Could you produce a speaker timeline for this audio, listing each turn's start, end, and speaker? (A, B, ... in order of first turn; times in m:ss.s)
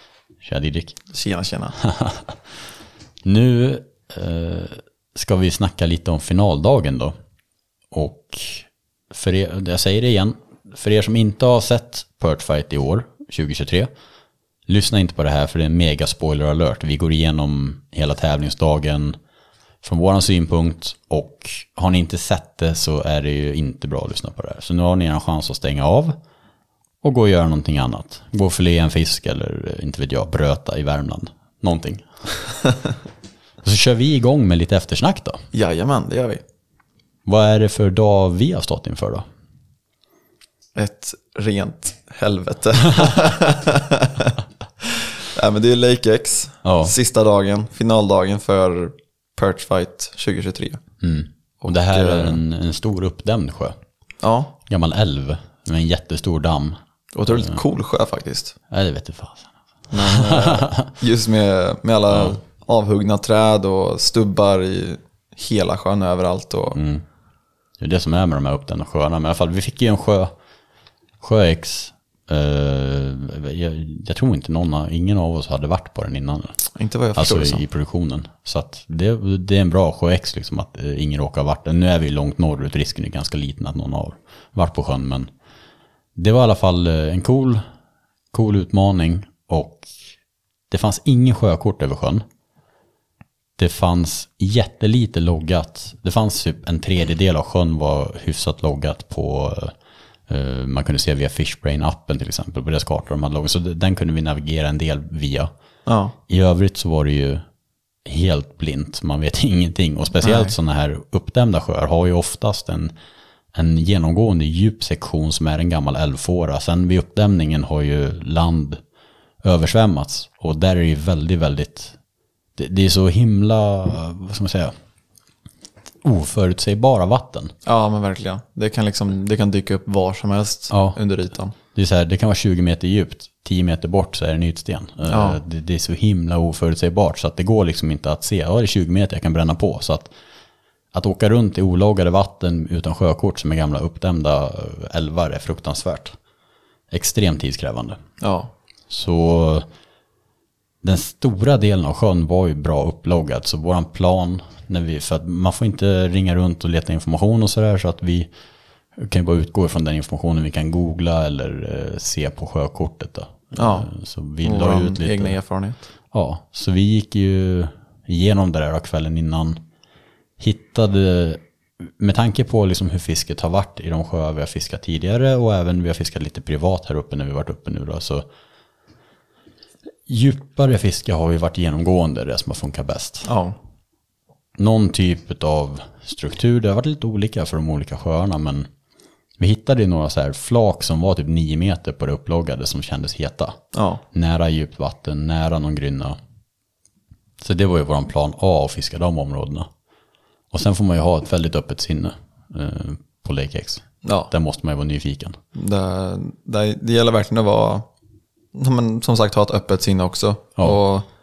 0:00.4-0:01.0 A
0:01.1-0:01.8 B
0:01.8-0:02.4 A
0:03.2-0:07.2 A
0:07.9-0:13.9 A
0:14.7-0:19.2 A
0:19.8-0:26.2 A
0:27.0-0:32.1 A
0:33.6-0:35.4 A
0:35.5-0:36.4 B
0:37.3-0:39.2 A
0:40.8-0:50.8 B
0:46.6-0:47.0 A
0:51.0-0:53.8 A
0:51.6-0:52.4 B
0:54.2-0:54.5 B
0:54.7-0:56.8 A
0:57.2-0:58.6 B
0:57.3-0:57.6 A
0:58.7-1:00.9 A
0:59.9-1:06.8 B
1:02.1-1:02.4 A
1:06.7-1:07.0 A
1:07.8-1:10.3 A
1:11.2-1:16.6 A
1:16.8-1:17.6 B
1:17.2-1:25.3 A
1:26.2-1:27.6 A
1:28.3-1:29.9 A
1:30.7-1:32.2 A
1:33.6-1:39.8 A
1:40.3-1:45.5 A
1:45.9-1:46.1 B
1:46.3-1:47.4 A
1:48.0-1:52.9 A
1:50.2-1:50.5 B
1:53.5-1:58.8 A
1:59.4-2:02.0 A
2:02.6-2:04.7 A
2:06.0-2:07.6 A
2:07.6-2:11.6 B
2:10.7-2:11.0 A
2:11.7-2:20.1 A
2:15.1-2:15.4 B
2:20.9-2:26.2 A
2:26.9-2:28.0 A
2:28.2-2:28.5 B
2:28.9-2:29.7 A
2:30.8-2:38.3 A
2:39.0-2:45.4 A
2:43.6-2:43.9 B
2:44.4-2:45.8 B
2:46.1-2:49.6 A
2:50.4-2:58.2 A
3:00.1-3:03.3 A
3:03.2-3:03.6 B
3:04.6-3:08.7 A
3:09.4-3:13.6 A
3:13.7-3:14.0 B
3:14.1-3:16.2 A
3:17.4-3:19.7 A
3:20.5-3:25.4 A
3:24.0-3:24.3 B
3:25.6-3:27.9 B
3:28.5-3:31.1 B